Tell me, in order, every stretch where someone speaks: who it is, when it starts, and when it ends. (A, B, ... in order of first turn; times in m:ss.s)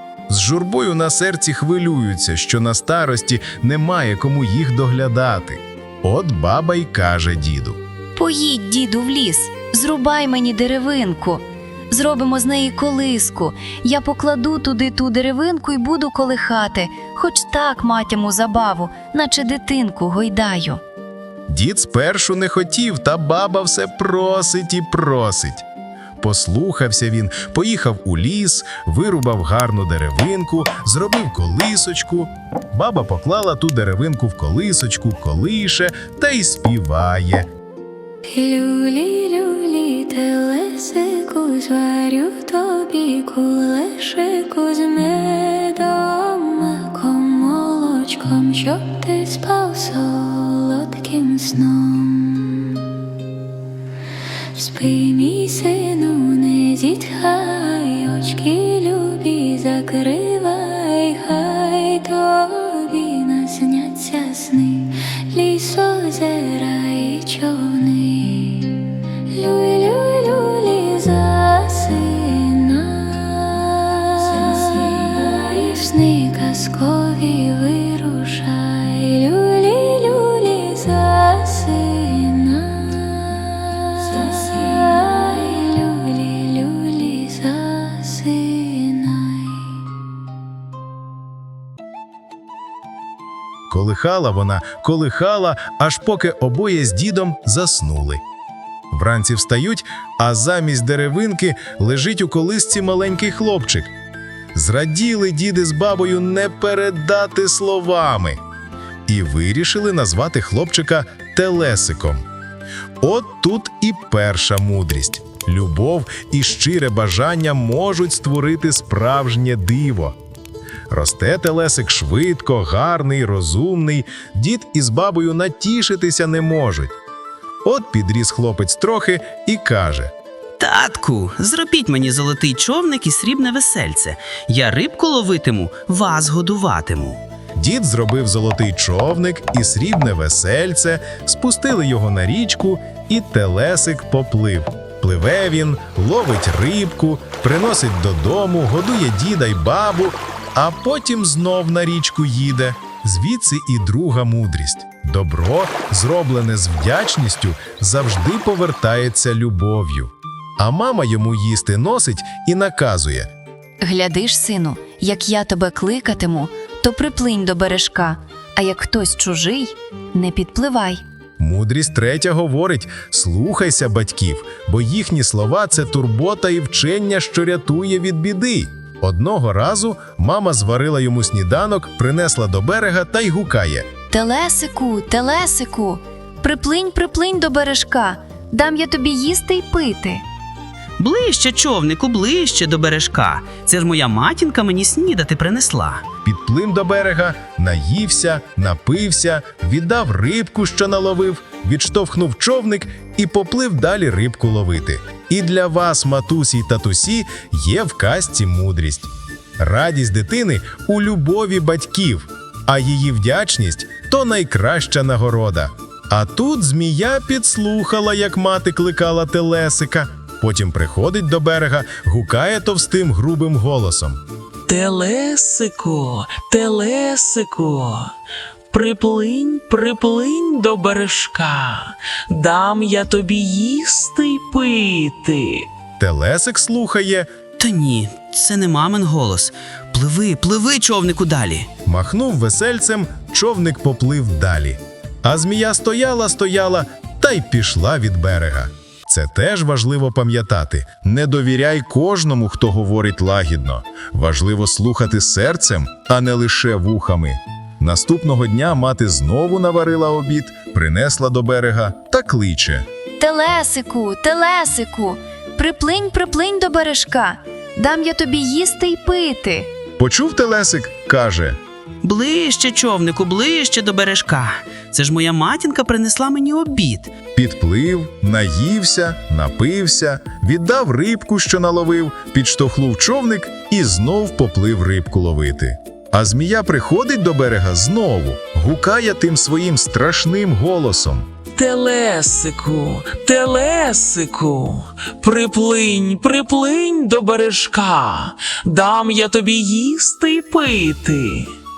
0:00.3-0:07.8 A
0:08.2-0:20.8 B
0:21.5-0:25.6 A
0:26.2-0:37.5 A
0:38.3-0:53.0 C
0:54.5-1:29.9 C
1:33.7-1:38.2 A
1:38.9-1:43.9 A
1:44.5-1:48.4 A
1:49.1-1:52.2 A
1:53.0-2:00.2 A
2:00.9-2:07.0 A
2:07.6-2:10.1 A
2:10.6-2:17.2 D
2:17.6-2:43.3 A
2:43.8-2:51.0 B
2:51.4-3:03.9 A
3:04.1-3:10.2 B
3:11.0-3:16.0 D
3:16.2-3:44.2 A
3:44.7-3:48.1 E
3:48.7-3:55.7 E
3:56.0-3:57.3 A
3:57.6-4:01.7 D
4:01.8-4:22.8 A
4:23.2-4:29.7 B
4:30.0-4:31.6 A
4:32.0-4:37.1 D
4:37.3-4:51.3 A
4:51.5-5:01.5 E